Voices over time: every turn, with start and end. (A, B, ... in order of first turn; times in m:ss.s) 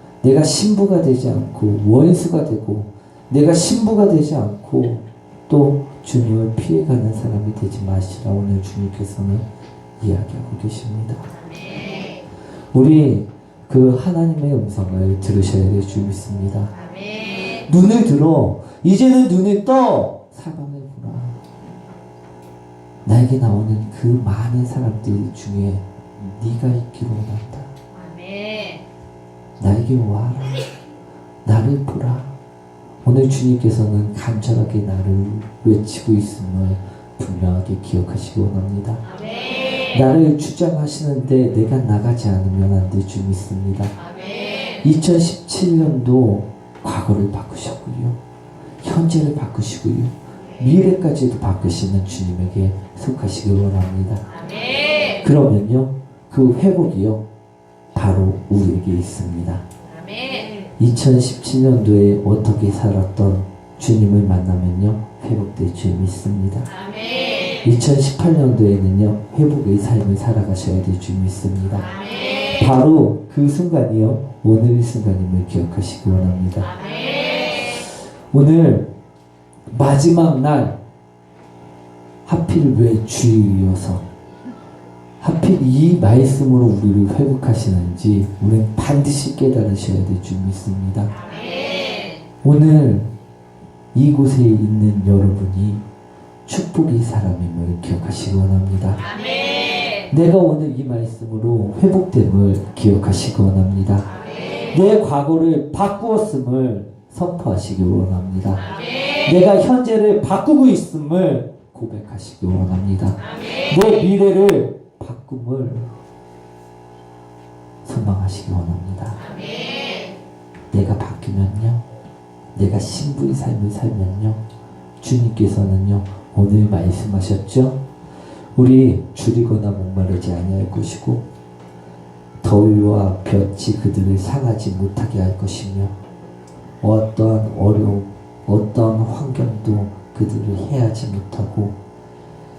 0:00.2-0:09.5 A
0:10.0-0:11.3 A
0:11.3-0:12.2 B
0:12.7-0:16.7 A
0:16.7-0:17.7 B
0:17.7-0:21.4 A
0:23.0-0:27.7 A
0:27.9-0:28.9 B
0:29.6-0:30.7 A
0:31.4-0:32.3 A
0:33.0-0:39.0 A
0:39.0-0:40.0 B
0:39.9-0:44.0 A
0:44.0-0:44.8 B
0:44.8-0:48.2 A
0:48.8-0:54.2 A
0:54.3-0:55.3 B
0:55.2-0:57.2 A
0:58.0-0:59.6 A
0:59.9-1:00.7 B
1:00.8-1:06.7 A
1:06.7-1:07.7 B
1:07.6-1:11.9 A
1:11.8-1:12.7 B
1:12.6-1:16.7 A
1:16.6-1:17.8 B
1:18.3-1:18.9 A
1:19.7-1:20.8 A
1:22.3-1:24.0 A
1:25.2-1:31.2 A
1:31.1-1:32.2 B
1:32.4-1:33.1 A
1:33.9-1:35.8 A
1:36.5-1:39.0 A
1:39.0-1:40.1 B
1:40.1-1:44.1 A
1:44.1-1:44.8 B
1:44.7-1:48.7 A
1:48.6-1:49.3 B
1:49.2-1:55.9 A
1:53.2-1:53.8 B
1:57.8-1:59.2 A
1:59.2-2:00.2 B
2:00.7-2:01.8 A
2:02.6-2:04.4 A
2:05.0-2:07.8 A
2:08.6-2:11.2 A
2:12.4-2:16.0 A
2:16.8-2:21.8 A